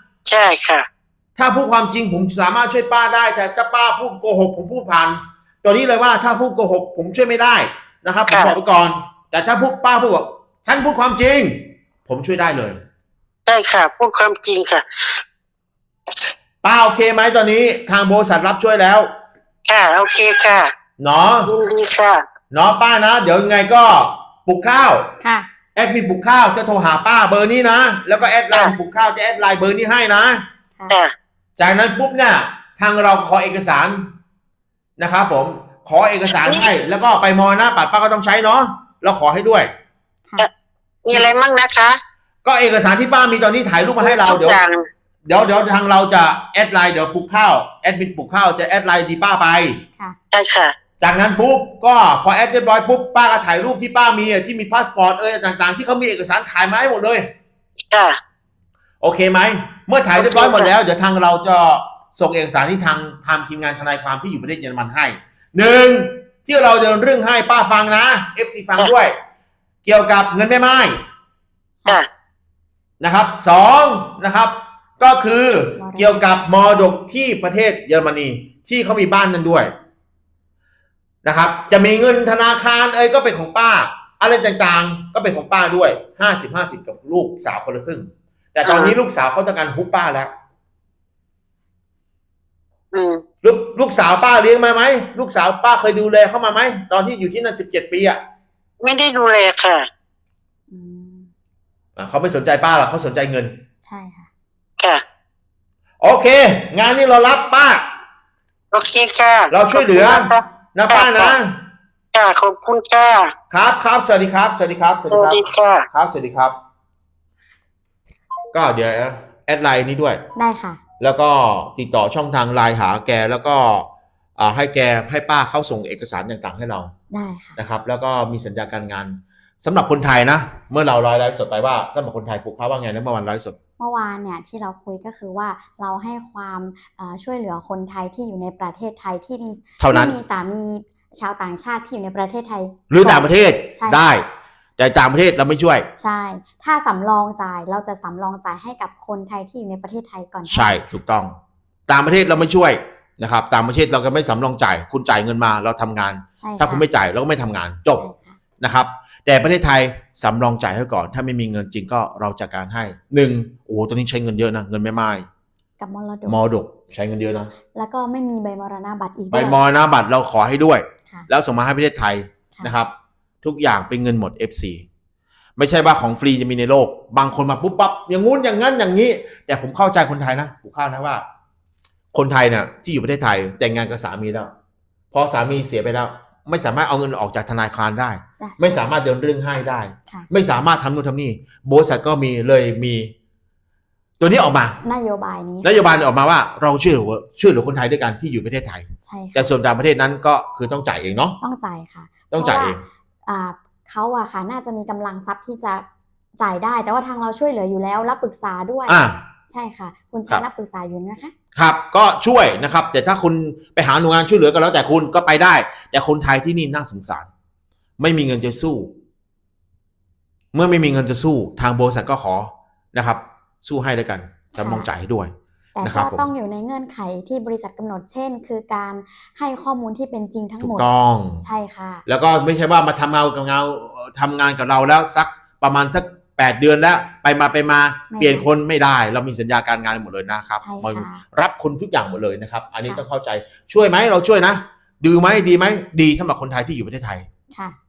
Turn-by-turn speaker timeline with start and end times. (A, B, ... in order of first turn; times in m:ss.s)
0:00.3-0:00.9 A
0:01.4-0:12.8 B
0:08.3-0:08.6 A
0:13.5-0:15.2 A
0:16.6-0:19.1 B
0:19.7-0:20.7 A
0:21.0-0:21.5 B
0:21.4-0:22.2 A
0:22.5-0:25.1 B
0:25.2-0:25.5 C
0:25.8-0:30.4 B
0:31.6-0:34.0 B
0:35.0-0:39.7 B
0:36.4-0:36.7 A
0:41.0-0:42.0 A
0:42.4-0:44.6 B
0:44.0-0:44.8 A
0:45.3-0:49.8 B
0:50.3-0:50.7 A
0:51.0-0:57.3 B
0:57.9-0:58.2 A
0:59.0-1:09.1 B
1:00.2-1:00.7 A
1:09.8-1:11.0 B
1:13.0-1:19.7 B
1:15.8-1:16.2 C
1:21.2-1:30.3 B
1:28.7-1:29.0 A
1:32.9-1:33.2 A
1:33.4-1:38.2 B
1:38.8-1:39.9 A
1:40.7-1:41.3 C
1:42.0-1:43.5 B
1:43.8-1:44.3 C
1:46.0-1:47.8 B
1:48.7-1:51.4 A
1:49.5-1:51.5 B
1:52.1-1:53.3 A
1:53.5-1:56.6 B
1:55.1-1:55.9 A
1:58.5-2:00.2 B
2:00.4-2:00.8 C
2:01.0-2:06.9 B
2:07.1-2:07.6 C
2:07.6-2:13.6 B
2:13.8-2:24.0 C
2:19.8-2:20.2 B
2:22.9-2:24.2 B
2:24.8-2:25.9 B
2:26.0-2:30.8 C
2:30.5-2:31.4 B
2:31.9-2:38.0 B
2:36.4-2:36.9 C
2:38.0-2:38.4 C
2:38.6-2:45.3 B
2:45.8-2:46.4 C
2:46.3-2:47.5 B
2:47.7-2:49.6 C
2:49.3-2:52.9 B
2:53.4-2:54.8 B
2:55.6-3:01.2 B
3:02.1-3:04.5 B
3:05.1-3:13.1 B
3:08.4-3:08.9 C
3:14.2-3:14.8 B
3:14.8-3:15.8 C
3:15.6-3:21.4 B
3:19.0-3:19.5 C
3:21.4-3:25.8 C
3:22.3-3:22.8 B
3:26.4-3:31.3 C
3:28.9-3:29.2 B
3:31.6-3:37.3 B
3:38.0-3:38.9 B
3:40.5-3:46.3 B
3:44.6-3:44.9 C
3:45.8-3:50.9 C
3:50.6-3:51.4 B
3:51.4-3:52.0 C
3:52.1-4:07.3 B
3:58.1-3:58.5 C
4:00.6-4:01.2 C
4:02.8-4:03.0 C